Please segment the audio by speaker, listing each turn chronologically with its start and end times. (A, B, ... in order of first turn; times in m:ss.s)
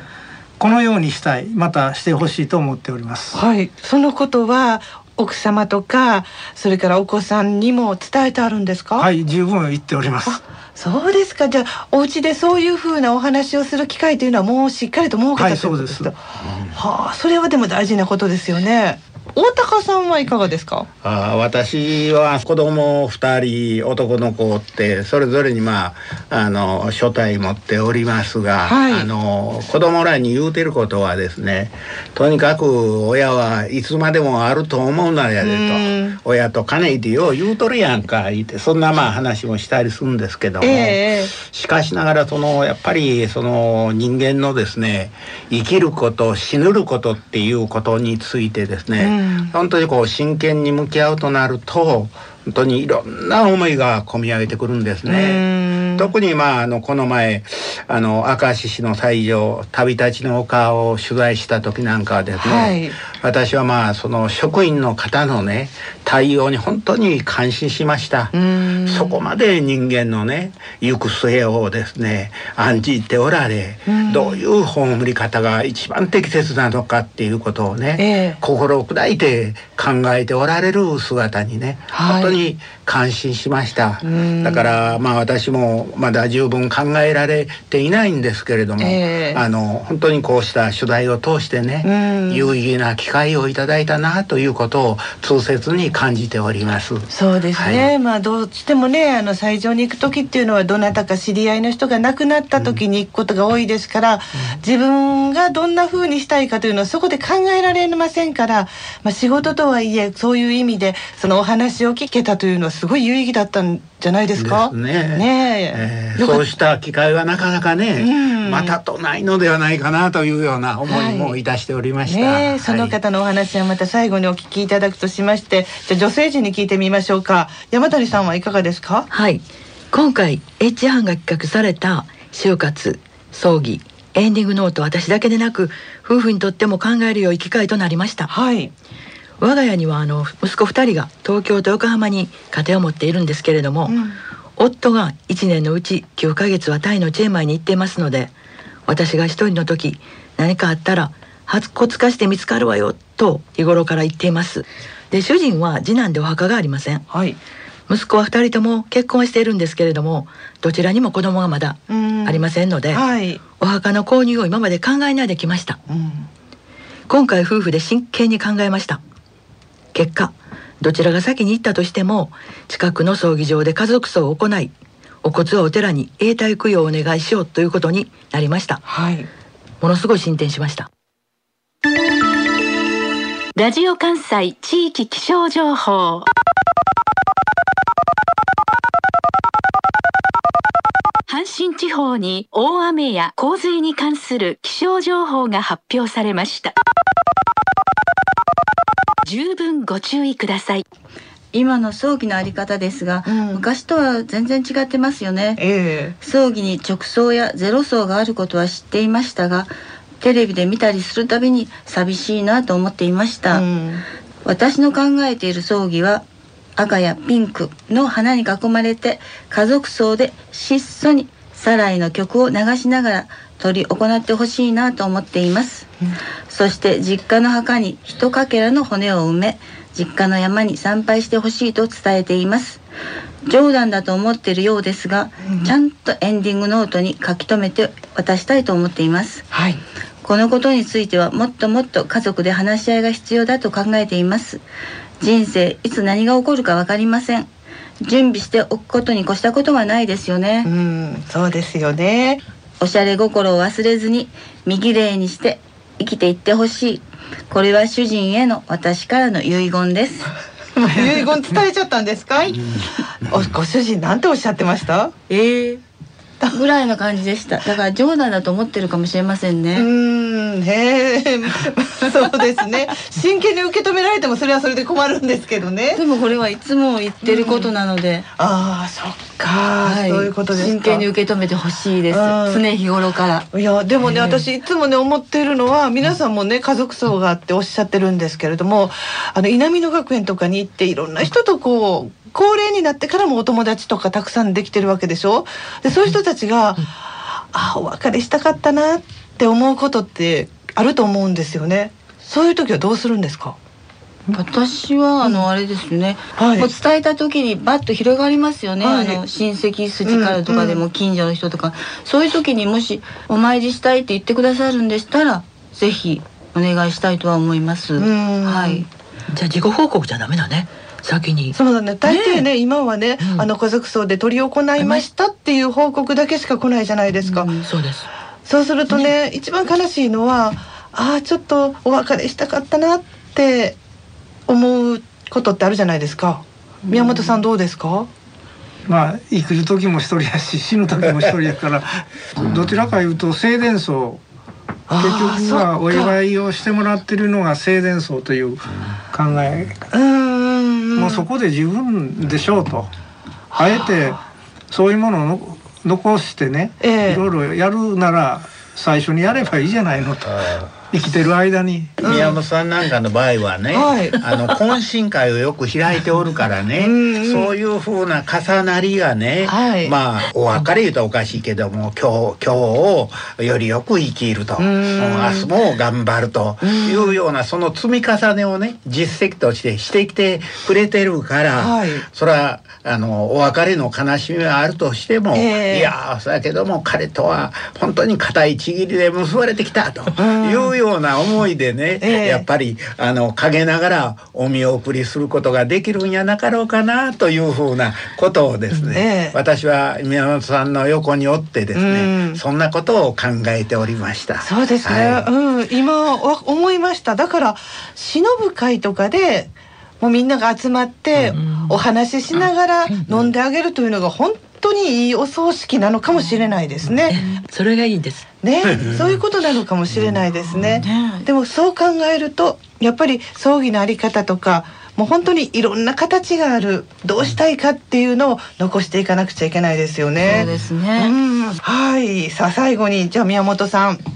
0:00.6-0:03.4 A
0:03.3-0:09.1 B
0:09.0-0:10.4 A
0:10.2-0:16.1 B
0:15.4-0:16.1 A
0:16.7-0:20.9 B
0:21.0-1:37.9 C
0:28.6-0:29.1 B
0:35.4-0:36.2 B
0:40.6-0:41.3 B
0:49.0-0:49.5 B
0:55.0-0:56.1 B
1:02.4-1:03.0 B
1:08.3-1:09.2 B
1:13.8-1:14.4 B
1:18.0-1:18.4 B
1:21.9-1:22.4 B
1:24.0-1:24.7 B
1:28.8-1:29.4 B
1:31.8-1:32.5 B
1:37.1-1:56.4 B
1:54.3-2:03.0 C
1:58.0-1:58.8 B
2:00.8-2:01.4 B
2:02.0-2:09.1 B
2:10.0-2:18.2 D
2:18.3-2:18.7 B
2:19.4-2:23.8 D
2:23.8-2:24.2 B
2:24.6-2:28.2 D
2:28.9-2:34.5 D
2:35.2-2:36.9 D
2:37.1-2:37.4 B
2:37.9-2:40.1 D
2:40.7-2:41.7 D
2:41.9-2:43.5 B
2:43.6-2:45.6 D
2:45.9-2:46.3 B
2:47.2-2:48.9 D
2:50.0-2:50.2 D
2:50.8-2:52.2 D
2:52.8-2:54.5 D
2:55.3-2:57.7 D
2:58.8-2:59.3 B
2:59.9-3:00.6 D
3:03.5-3:06.3 E
3:11.3-3:16.7 E
3:19.2-3:20.8 E
3:21.5-3:25.6 F
3:23.2-3:23.6 B
3:25.6-3:26.2 B
3:26.2-3:33.6 F
3:33.5-3:34.0 B
3:34.4-3:36.2 F
3:36.8-3:45.9 F
3:46.5-3:52.8 F
3:53.4-3:59.5 F
3:59.5-3:59.8 B
4:00.2-4:04.6 F
4:05.2-4:07.5 F
4:08.0-4:10.7 F
4:10.6-4:12.4 B
4:12.8-4:20.3 F
4:20.8-4:22.6 B
4:23.3-4:25.2 B
4:25.3-4:25.8 F
4:26.5-4:29.8 F
4:29.7-4:36.0 B
4:35.9-4:38.2 F
4:37.2-4:37.7 B
4:38.4-4:41.1 B
4:39.8-4:43.4 F
4:42.1-4:42.6 B
4:43.5-4:56.9 B
4:44.1-4:44.4 F
4:57.5-5:03.6 B
5:04.3-5:18.8 F
5:06.4-5:06.7 B
5:08.8-5:09.2 B
5:10.0-5:10.8 B
5:18.0-5:18.8 B
5:19.3-5:21.5 D
5:21.5-5:27.7 B
5:27.2-5:27.7 F
5:28.4-5:33.8 B
5:34.5-5:38.1 B
5:36.9-5:37.4 F
5:38.9-5:44.2 A
5:44.9-5:46.1 B
5:45.0-5:49.8 A
5:49.9-5:51.2 B
5:51.0-5:52.9 A
5:53.6-6:02.0 A
5:56.8-5:57.2 B
6:02.0-6:02.4 B
6:02.0-6:45.2 C
6:03.7-6:04.2 B
6:06.7-6:07.5 B
6:09.4-6:09.9 B
6:14.6-6:15.5 B
6:16.6-6:17.2 B
6:21.5-6:22.0 B
6:25.3-6:25.9 B
6:30.2-6:30.8 B
6:32.0-6:32.4 B
6:38.9-6:39.4 B
6:41.7-6:42.4 B
6:44.4-6:57.2 B
6:57.6-6:58.2 D
6:58.4-7:14.0 B
6:58.7-6:59.0 C
7:00.8-7:01.2 F
7:10.2-7:11.1 F